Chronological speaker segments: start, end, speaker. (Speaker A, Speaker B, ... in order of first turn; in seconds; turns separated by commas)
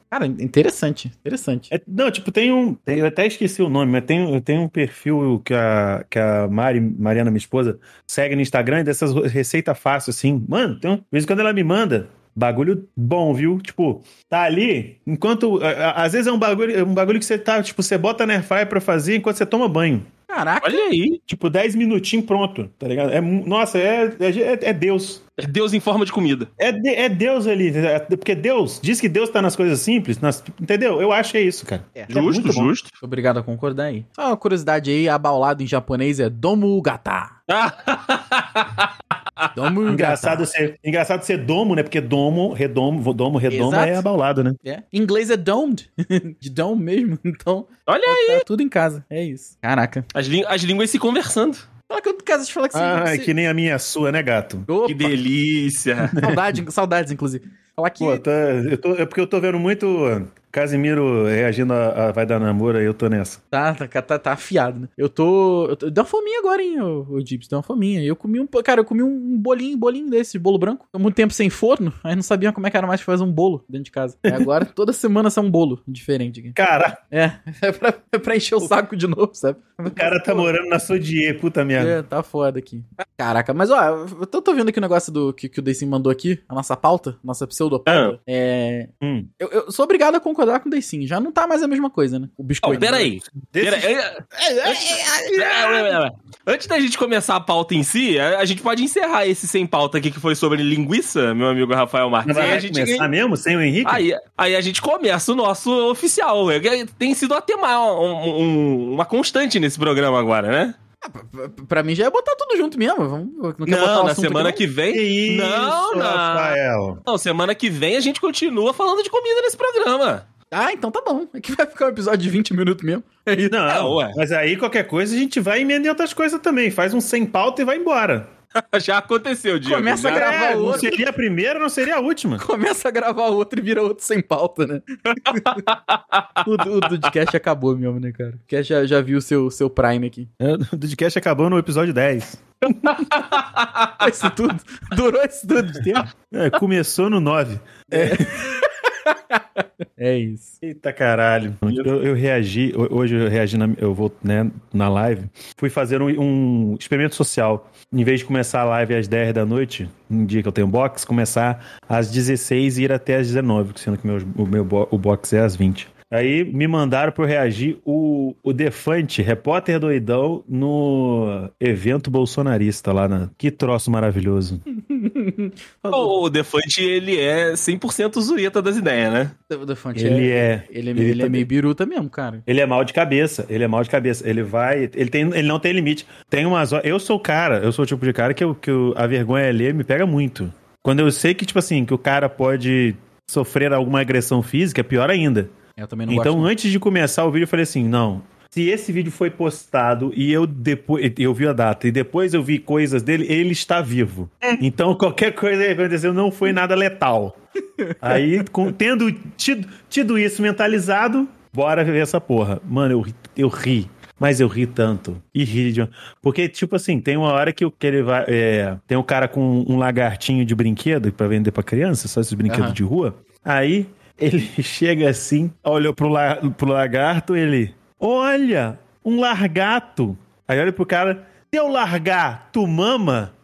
Speaker A: 0.1-1.7, Speaker B: 1.7-20.1, Speaker A: 20.3-20.9, Speaker C: 20.6-21.2, Speaker B: 21.3-25.2, Speaker C: 25.4-26.5, Speaker B: 26.6-32.7, Speaker C: 32.1-32.9, Speaker A: 33.0-37.3, Speaker C: 37.5-39.5, Speaker A: 39.5-40.5, Speaker B: 39.9-44.6, Speaker A: 43.5-44.0, Speaker A: 44.6-50.1, Speaker C: 47.9-48.4, Speaker C: 50.1-51.6, Speaker A: 51.9-53.3, Speaker B: 52.7-54.7, Speaker A: 54.7-55.1, Speaker C: 54.8-56.1, Speaker B: 56.0-56.6, Speaker A: 56.2-58.2, Speaker B: 58.0-63.4, Speaker A: 63.5-76.6, Speaker B: 76.5-77.0, Speaker A: 77.1-80.5, Speaker B: 79.9-82.0, Speaker A: 81.8-93.1, Speaker C: 87.9-88.1, Speaker B: 89.0-89.3, Speaker C: 92.6-103.1, Speaker B: 93.5-96.0, Speaker B: 102.2-104.0, Speaker A: 102.3-102.6, Speaker C: 103.8-110.8, Speaker A: 111.0-114.6, Speaker C: 113.7-120.2, Speaker B: 114.9-117.0, Speaker A: 120.5-123.6, Speaker B: 123.5-128.3, Speaker C: 123.7-124.2, Speaker C: 128.6-130.8, Speaker A: 129.6-131.1, Speaker B: 130.0-132.4, Speaker A: 132.4-135.6, Speaker C: 135.3-136.4, Speaker A: 136.4-140.3, Speaker B: 140.4-143.0, Speaker C: 143.1-143.9, Speaker A: 144.0-146.1, Speaker B: 146.3-148.5, Speaker A: 147.9-150.6, Speaker B: 150.6-174.6, Speaker A: 174.8-176.1, Speaker C: 175.9-179.3, Speaker A: 179.5-182.4, Speaker B: 179.9-181.5, Speaker B: 182.5-195.5, Speaker A: 195.8-196.5, Speaker B: 196.1-207.4, Speaker B: 208.0-233.3, Speaker A: 222.5-222.8